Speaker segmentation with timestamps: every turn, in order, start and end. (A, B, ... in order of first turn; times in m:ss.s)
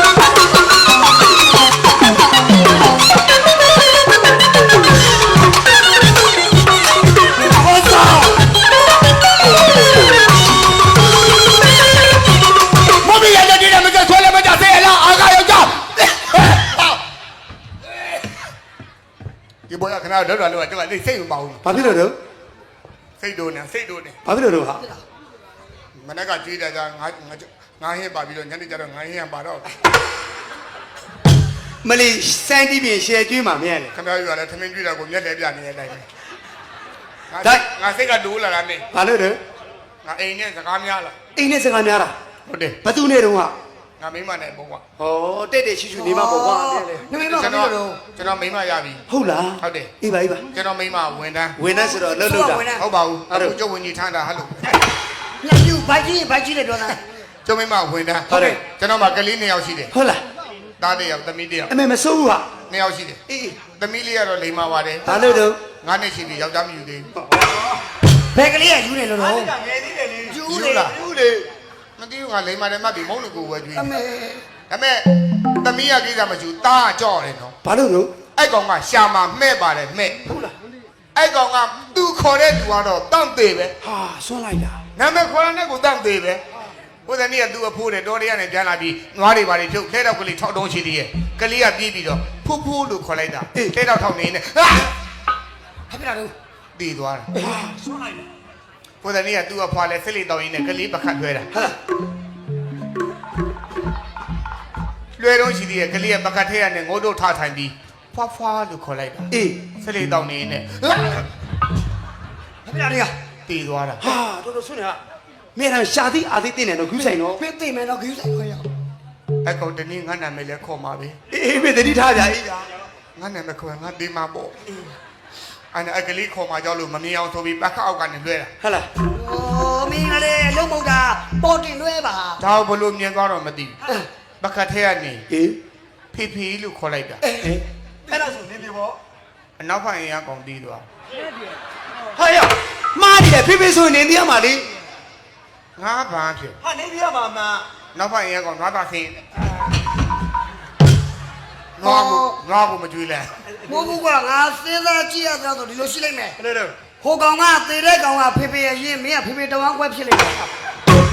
0:07.5-0:08.4 A
0:12.9-0:17.0 B
0:19.7-0:21.6 B
0:21.6-0:22.2 C
0:23.2-0:24.2 B
0:24.2-0:24.8 C
0:26.0-0:29.6 B
0:31.8-0:33.9 C
0:33.9-0:36.1 B
0:37.3-0:38.9 B
0:38.9-0:39.4 C
0:40.0-0:41.2 B
0:41.4-0:42.1 C
0:42.5-0:42.8 B
0:42.8-0:43.6 C
0:44.0-0:44.8 B
0:45.0-0:47.0 C
0:46.0-0:48.0 A
0:47.1-0:49.0 B
0:49.1-0:50.4 C
0:49.6-0:49.9 B
0:50.5-0:51.6 B
0:51.6-0:52.6 C
0:51.9-0:52.9 A
0:52.8-0:54.7 B
0:53.3-0:53.6 C
0:55.4-0:57.0 A
0:57.4-0:59.9 B
0:58.3-0:58.6 C
0:59.9-1:00.2 C
1:00.8-1:01.7 B
1:01.7-1:02.5 C
1:02.7-1:03.2 B
1:03.3-1:03.6 C
1:03.8-1:05.1 B
1:05.1-1:05.6 C
1:05.8-1:07.1 B
1:07.2-1:07.7 C
1:08.3-1:09.5 A
1:09.2-1:11.5 C
1:10.3-1:11.0 A
1:10.4-1:11.0 B
1:12.0-1:13.9 B
1:13.8-1:14.4 A
1:14.7-1:17.6 B
1:17.6-1:18.1 C
1:18.4-1:20.2 B
1:21.2-1:23.8 B
1:23.8-1:24.8 C
1:25.0-1:26.4 B
1:27.1-1:34.9 B
1:35.9-1:36.3 A
1:36.8-1:37.3 B
1:37.4-1:38.2 C
1:39.0-1:41.5 B
1:45.2-1:51.2 B
1:49.3-1:49.6 C
1:52.7-1:53.1 A
1:53.5-1:54.2 B
1:54.0-1:55.0 C
1:55.6-1:57.4 C
1:57.1-1:58.7 A
1:59.4-2:01.2 B
2:01.3-2:02.7 C
2:03.2-2:04.6 B
2:05.7-2:08.5 B
2:08.6-2:08.9 C
2:09.1-2:12.4 A
2:12.4-2:13.8 B
2:14.4-2:15.3 B
2:15.3-2:15.6 C
2:16.1-2:17.2 B
2:17.3-2:19.0 C
2:19.6-2:20.9 B
2:22.2-2:24.7 C
2:25.8-2:26.6 B
2:26.6-2:27.7 C
2:27.9-2:29.4 B
2:31.8-2:33.3 B
2:31.8-2:32.4 A
2:33.6-2:33.9 C
2:33.7-2:36.4 A
2:36.4-2:36.8 C
2:37.0-2:40.5 A